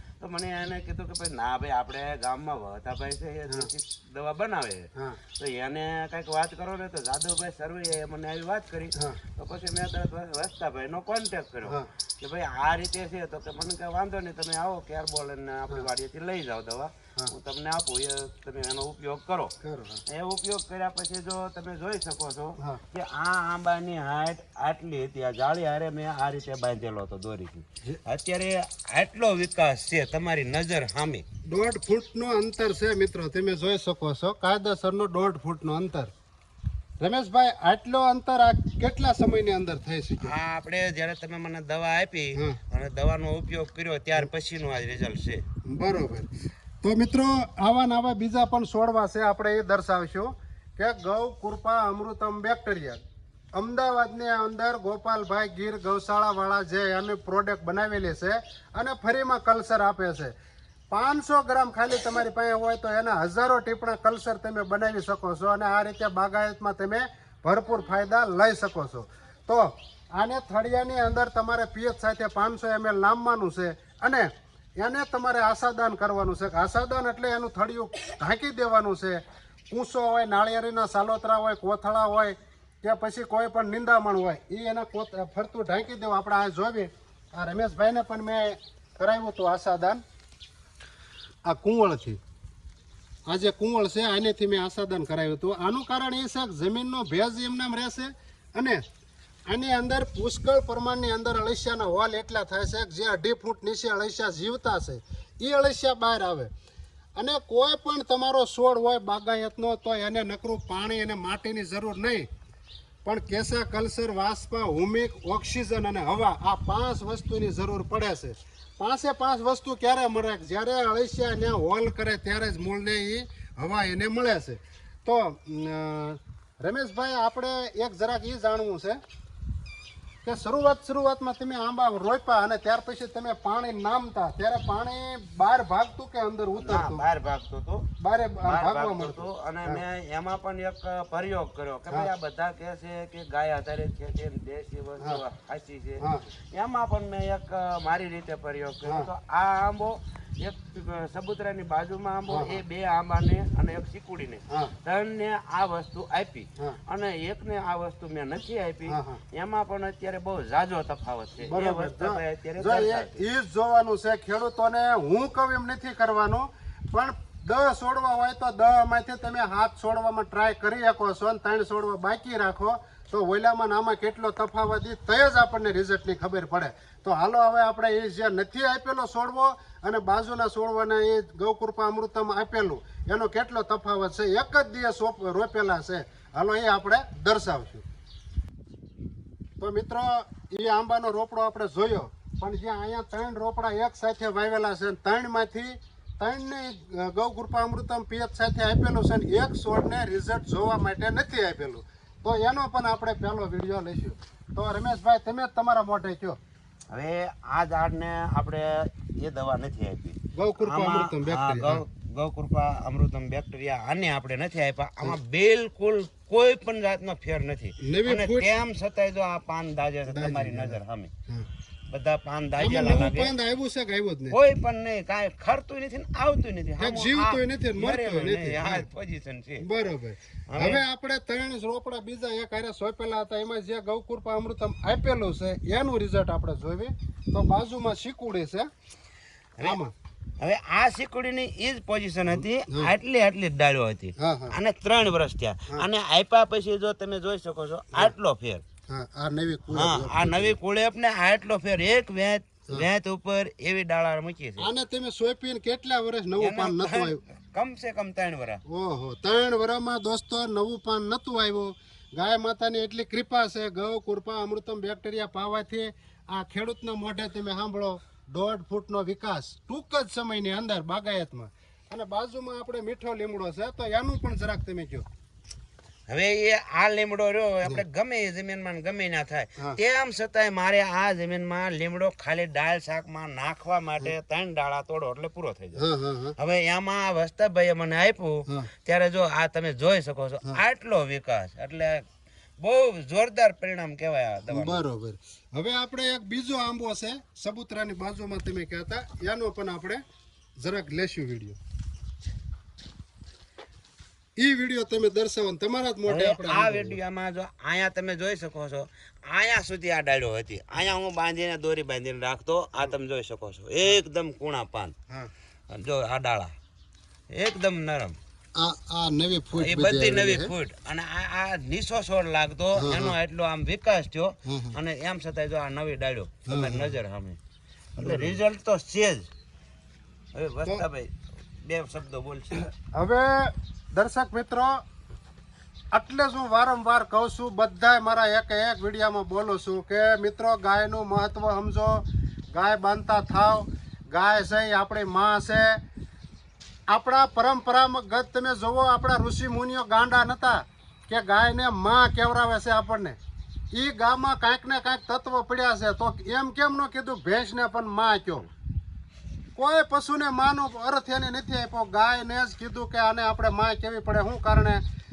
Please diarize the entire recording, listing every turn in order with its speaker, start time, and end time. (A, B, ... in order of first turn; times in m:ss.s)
0:00.2-0:19.5 A
0:19.6-0:20.0 B
0:20.1-0:31.2 A
0:31.4-0:36.1 B
0:37.0-0:40.4 B
0:40.2-0:45.4 A
0:45.6-0:46.3 B
0:46.8-0:53.0 B
0:53.5-1:00.3 B
1:00.9-1:30.0 B
1:31.4-1:32.2 B
1:33.3-1:38.8 B
1:39.5-1:46.5 B
1:47.2-1:52.3 B
1:53.0-2:09.0 B
2:10.2-2:17.0 B
2:16.6-2:17.8 A
2:18.0-2:19.8 B
2:18.4-2:43.2 A
2:26.0-2:26.3 B
2:32.3-2:32.6 B
2:38.9-2:39.2 B
2:41.4-3:07.8 B
3:09.6-3:26.4 B
3:26.9-3:41.1 A
3:30.3-3:31.8 B
3:37.8-3:38.6 B
3:40.1-3:41.5 B
3:41.9-3:43.3 A
3:42.6-3:44.4 B
3:44.3-3:49.6 A
3:46.8-3:48.8 B
3:49.6-3:58.7 B
3:50.5-3:50.8 A
3:59.6-3:59.9 B
4:00.4-4:08.6 A
4:04.2-4:04.6 B
4:08.9-4:10.6 B
4:09.7-4:14.7 A
4:14.6-4:17.2 B
4:16.4-4:18.6 A
4:18.7-4:35.0 B
4:36.1-4:45.8 A
4:45.8-4:46.3 B
4:46.4-4:52.0 A
4:52.6-4:54.8 A
4:54.5-5:00.0 B
5:00.6-5:01.6 B
5:04.4-5:07.0 B
5:06.1-5:14.9 A
5:15.7-5:16.5 A
5:17.3-5:18.2 A
5:18.6-5:20.5 B
5:19.5-5:27.4 A
5:22.8-5:23.1 B
5:24.5-5:24.8 B
5:26.4-5:26.9 B
5:28.0-5:28.4 B
5:28.0-5:29.3 A
5:30.3-5:32.7 A
5:32.6-5:34.8 B
5:35.9-5:45.8 B
5:46.9-5:53.2 B
5:53.7-5:58.5 B
5:59.6-6:04.8 B